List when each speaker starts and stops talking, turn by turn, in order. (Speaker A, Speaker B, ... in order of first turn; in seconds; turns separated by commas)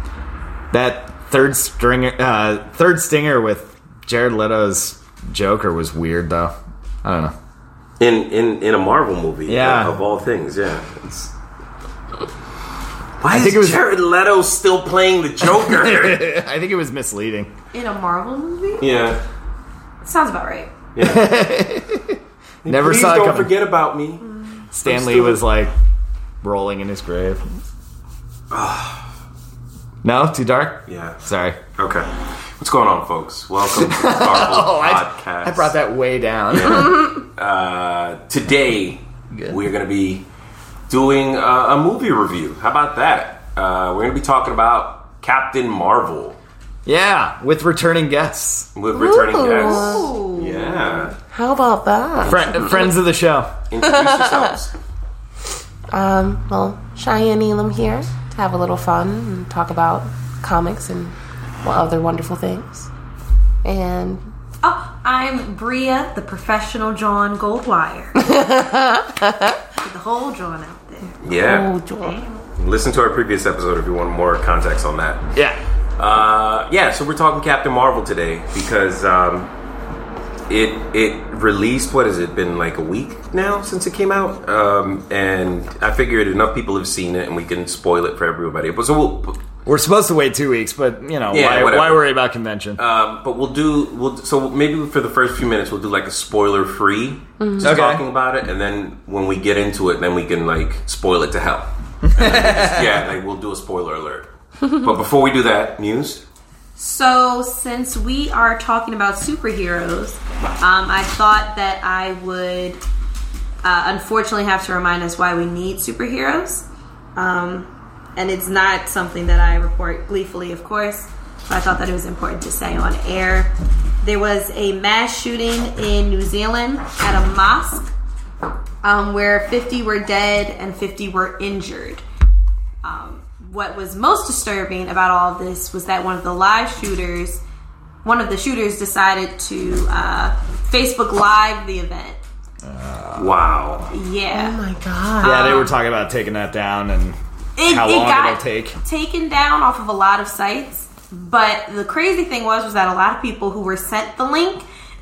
Speaker A: 0.7-7.3, Speaker B: 8.0-11.3, Speaker A: 9.5-9.9, Speaker B: 13.2-16.3, Speaker A: 13.3-13.8, Speaker A: 15.6-17.5, Speaker C: 17.7-18.9, Speaker B: 18.8-19.2, Speaker C: 20.0-20.7, Speaker B: 20.9-21.3, Speaker A: 21.0-23.5, Speaker B: 22.6-24.2, Speaker A: 24.7-25.7, Speaker B: 24.8-25.4, Speaker A: 26.4-27.4, Speaker B: 28.5-29.0, Speaker A: 30.0-31.6, Speaker B: 30.9-31.2, Speaker B: 31.8-35.8, Speaker A: 33.8-37.1, Speaker B: 36.5-40.3, Speaker B: 40.9-46.4, Speaker A: 46.9-48.7, Speaker B: 48.7-51.1, Speaker D: 48.9-50.1, Speaker C: 49.4-51.1, Speaker D: 51.3-52.9, Speaker A: 52.2-53.5, Speaker B: 52.2-52.8, Speaker B: 53.7-54.7, Speaker D: 53.9-54.5, Speaker D: 55.9-62.9, Speaker D: 63.6-64.3, Speaker C: 64.6-68.4, Speaker D: 68.2-69.6, Speaker C: 69.8-71.2, Speaker B: 71.2-71.7, Speaker D: 71.4-72.2, Speaker C: 72.0-72.4, Speaker B: 72.6-75.2, Speaker A: 75.3-75.6, Speaker B: 76.0-79.5, Speaker B: 80.5-89.4, Speaker A: 89.6-92.8, Speaker B: 91.3-92.1, Speaker B: 92.8-106.2, Speaker D: 97.4-97.7, Speaker A: 97.6-98.0, Speaker A: 102.0-102.9, Speaker C: 106.8-112.8, Speaker C: 113.6-123.5, Speaker C: 124.0-127.9, Speaker C: 128.8-132.0, Speaker C: 132.8-137.4, Speaker C: 138.0-142.2, Speaker A: 142.6-143.4, Speaker B: 143.2-143.9, Speaker C: 143.9-144.6, Speaker D: 144.3-145.7, Speaker C: 145.2-145.7, Speaker A: 145.2-148.8, Speaker C: 147.6-154.6